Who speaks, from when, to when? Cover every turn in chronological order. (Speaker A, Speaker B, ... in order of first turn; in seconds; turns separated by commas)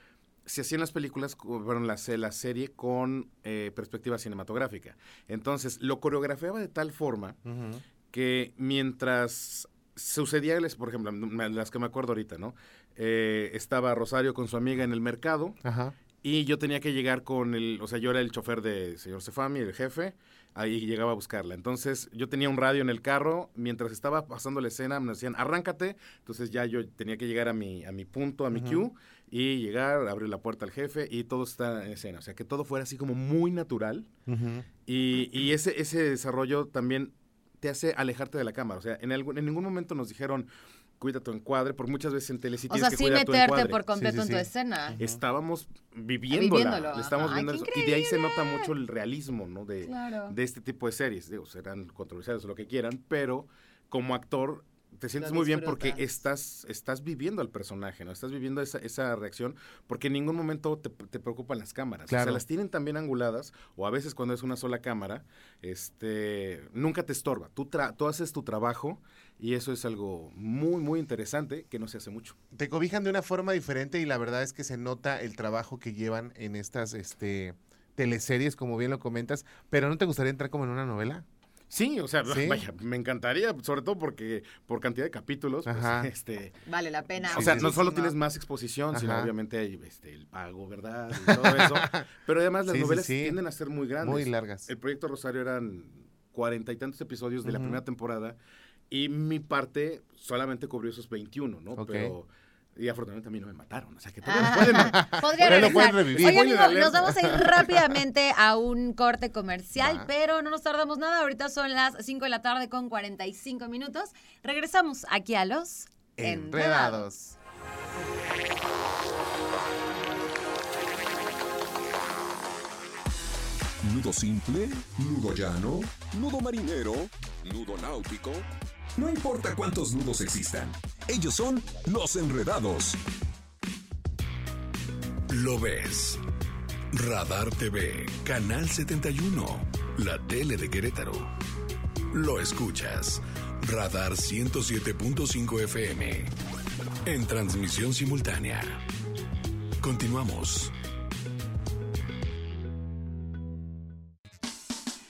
Speaker A: 0.5-7.4, Speaker B: 7.5-7.8, Speaker A: 8.1-15.6, Speaker B: 15.6-15.9, Speaker A: 16.2-34.1, Speaker B: 28.5-28.9, Speaker B: 34.3-34.7, Speaker A: 34.8-43.8, Speaker C: 42.7-45.0, Speaker B: 44.0-45.2, Speaker A: 45.0-72.4, Speaker C: 46.3-48.7, Speaker C: 49.8-50.3, Speaker C: 55.2-56.0, Speaker B: 62.1-62.4, Speaker B: 72.5-81.2, Speaker A: 81.7-86.6, Speaker B: 82.2-82.6, Speaker B: 85.6-86.1, Speaker C: 86.7-88.2, Speaker A: 87.2-98.4, Speaker B: 87.3-87.8, Speaker B: 88.9-89.3, Speaker B: 91.2-92.0, Speaker B: 92.7-93.3, Speaker B: 94.0-94.7, Speaker B: 97.4-97.8, Speaker A: 98.9-107.7, Speaker B: 101.8-102.1, Speaker C: 104.2-117.1, Speaker B: 104.4-107.4, Speaker B: 109.8-110.1, Speaker B: 116.2-117.3, Speaker D: 123.8-133.0, Speaker E: 135.3-136.2, Speaker E: 136.9-141.3, Speaker E: 142.1-146.3, Speaker E: 147.0-148.8, Speaker E: 149.8-150.7